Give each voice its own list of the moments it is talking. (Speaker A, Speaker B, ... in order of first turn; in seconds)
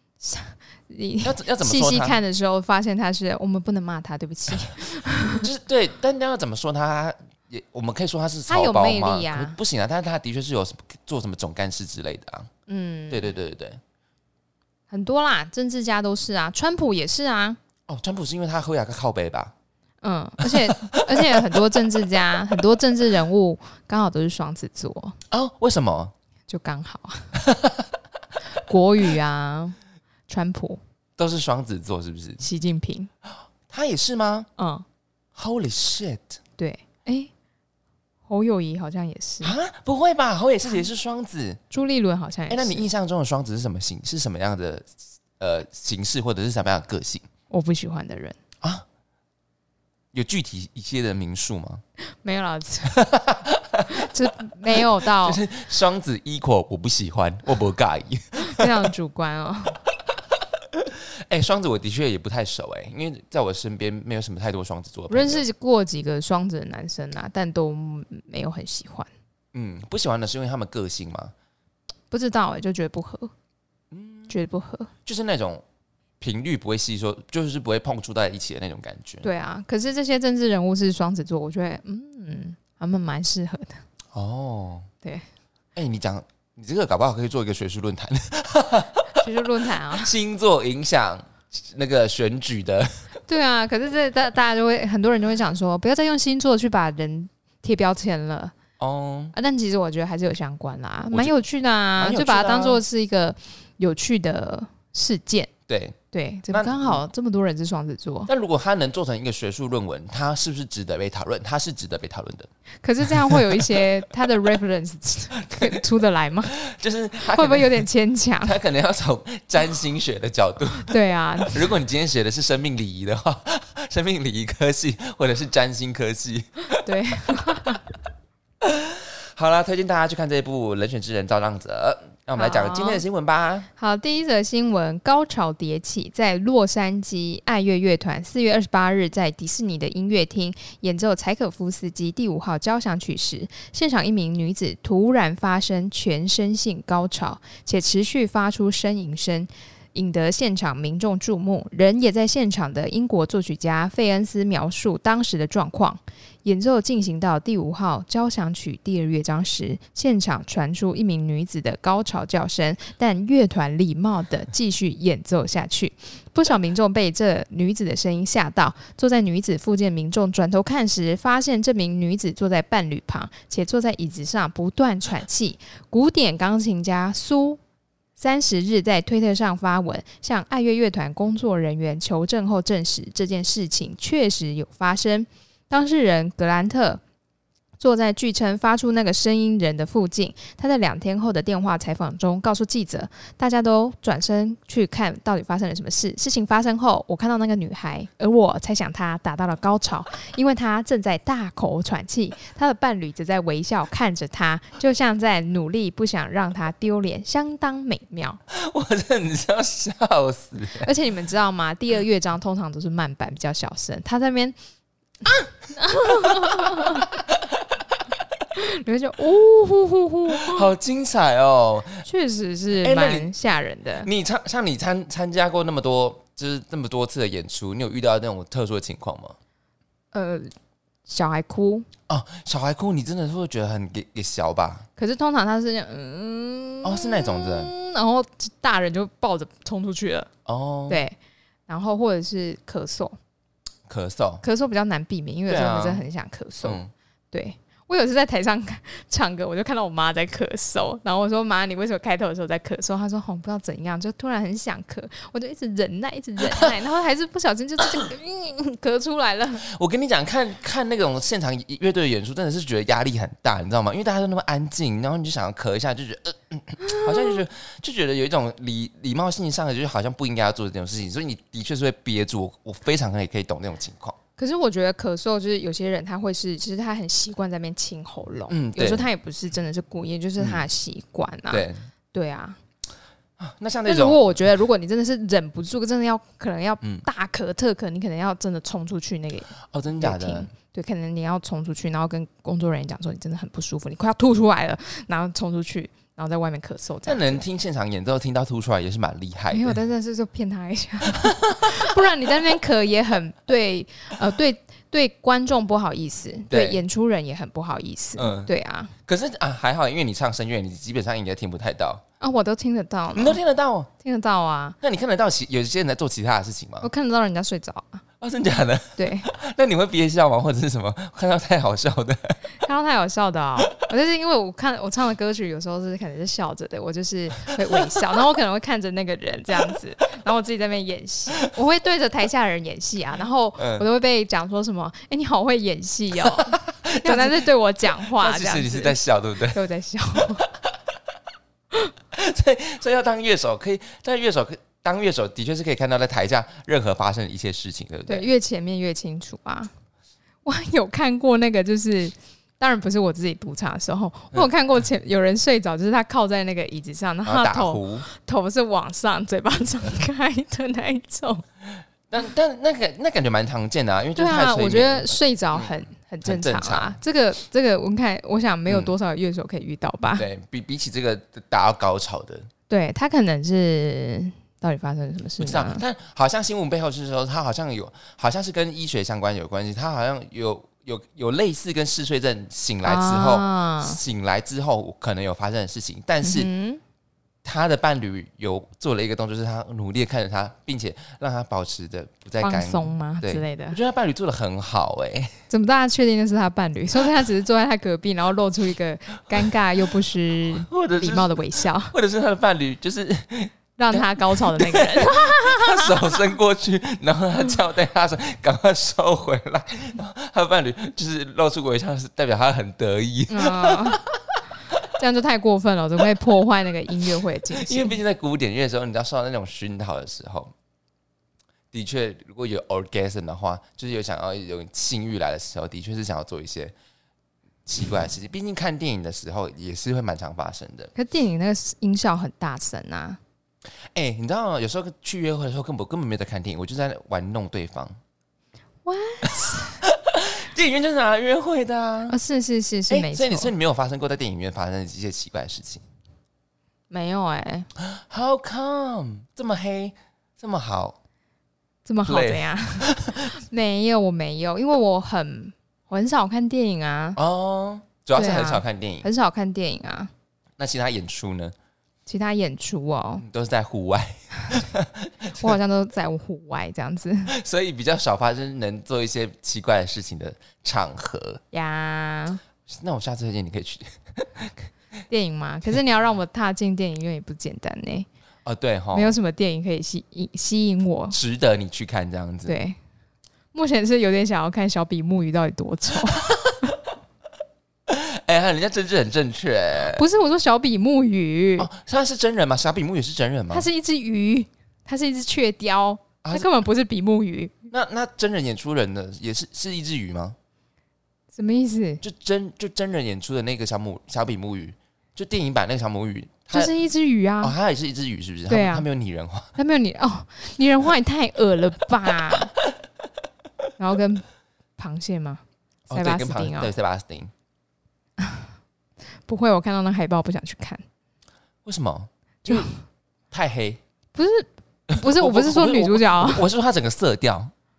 Speaker A: 0.2-5.5, 8.5-9.6, 12.7-13.3, 14.9-17.6, 20.0-25.2, 26.5-27.4, 28.5-29.8, 30.3-30.8, 32.4-33.1, 34.6-34.8, 36.6-37.3, 38.3-39.5, 41.7-42.9, 47.5-48.4, 52.2-53.0, 53.9-55.4, 58.4-59.8, 65.1-69.1, 72.1-73.3, 74.3-74.9, 79.2-83.8, 89.2-90.1, 93.3-98.5, 99.3-105.5, 106.1-108.3, 112.8-116.5, 117.3-118.5, 120.8-121.7, 126.8-127.8, 132.4-133.0, 133.8-177.6, 178.2-187.0, 187.8-208.4, 210.8-214.6, 215.8-217.1, 218.5-220.7, 222.0-224.1, 230.1-230.5, 231.1-231.9, 235.0-240.3, 240.9-241.2, 241.7-243.2, 244.4-259.7, 266.9-267.3, 274.4-282.6, 283.9-297.4, 299.5-308.9, 312.2-313.4, 314.0-314.8, 316.8-318.0, 319.0-319.3, 322.6-340.4, 348.1-349.7, 350.4-361.4, 364.1-370.2, 372.7-375.8, 382.8-384.0, 386.2-386.8, 392.4-393.8, 395.5-401.9, 403.8-406.2, 413.3-414.0, 414.9-418.0, 430.9-433.2, 438.8-439.8, 442.1-443.5, 446.9-447.7, 451.9-457.2, 458.1-460.1, 462.1-463.2, 465.4-467.3, 471.5-472.4, 475.1-478.1, 478.9-481.2, 482.4-482.8, 483.5-486.7, 489.9-491.7, 493.5-497.6, 501.3-502.0, 506.5-507.5, 508.5-508.9, 509.6-512.5, 513.8-514.2, 514.8-516.7, 518.2-518.5, 519.3-520.8, 522.4-522.8, 524.1-526.5
Speaker B: 1.2-2.2, 5.3-12.5, 13.1-13.8, 17.9-19.5, 20.4-21.6, 25.3-26.1, 27.4-27.9, 31.2-32.4, 33.7-34.5, 35.3-36.4, 39.4-41.6, 42.5-47.3, 50.1-51.8, 52.9-54.1, 54.7-58.9, 60.7-65.4, 69.5-71.3, 73.9-74.3, 75.0-75.6, 76.2-79.3, 84.1-84.9, 85.8-89.2, 89.9-92.9, 98.8-99.3, 102.0-102.8, 105.7-106.0, 106.5-107.0, 108.3-112.5, 113.1-113.8, 115.4-115.8, 116.5-117.8, 118.4-120.9, 121.4-126.8, 128.6-133.7, 208.5-210.9, 216.2-217.6, 220.3-222.0, 222.8-223.3, 224.0-229.3, 232.1-234.8, 236.8-237.7, 240.4-241.0, 243.9-244.4, 245.5-246.0, 246.6-246.9, 259.6-274.2, 278.5-279.1, 280.4-280.6, 281.5-281.8, 283.4-284.2, 289.6-290.5, 297.1-299.8, 301.1-301.8, 306.5-306.8, 308.2-308.5, 309.1-312.0, 313.1-313.9, 314.8-316.9, 318.2-322.4, 333.6-333.9, 336.2-337.5, 338.0-339.6, 340.4-340.6, 342.1-348.3, 357.2-358.1, 362.1-365.7, 366.2-367.0, 368.7-368.9, 370.2-372.5, 375.4-386.5, 387.4-395.3, 400.5-414.8, 417.5-420.5, 421.7-426.7, 427.6-430.9, 433.9-437.9, 439.4-442.2, 442.9-445.8, 447.8-450.9, 452.1-453.3, 457.2-459.1, 460.6-461.5, 463.2-465.5, 467.3-471.4, 472.7-474.7, 478.4-479.1, 481.1-482.5, 486.1-486.7, 487.9-490.0, 491.6-493.7, 496.2-496.5, 497.7-500.4, 502.0-506.7, 507.4-509.5, 515.9-517.3, 521.6-522.7, 523.3-523.8, 524.9-527.5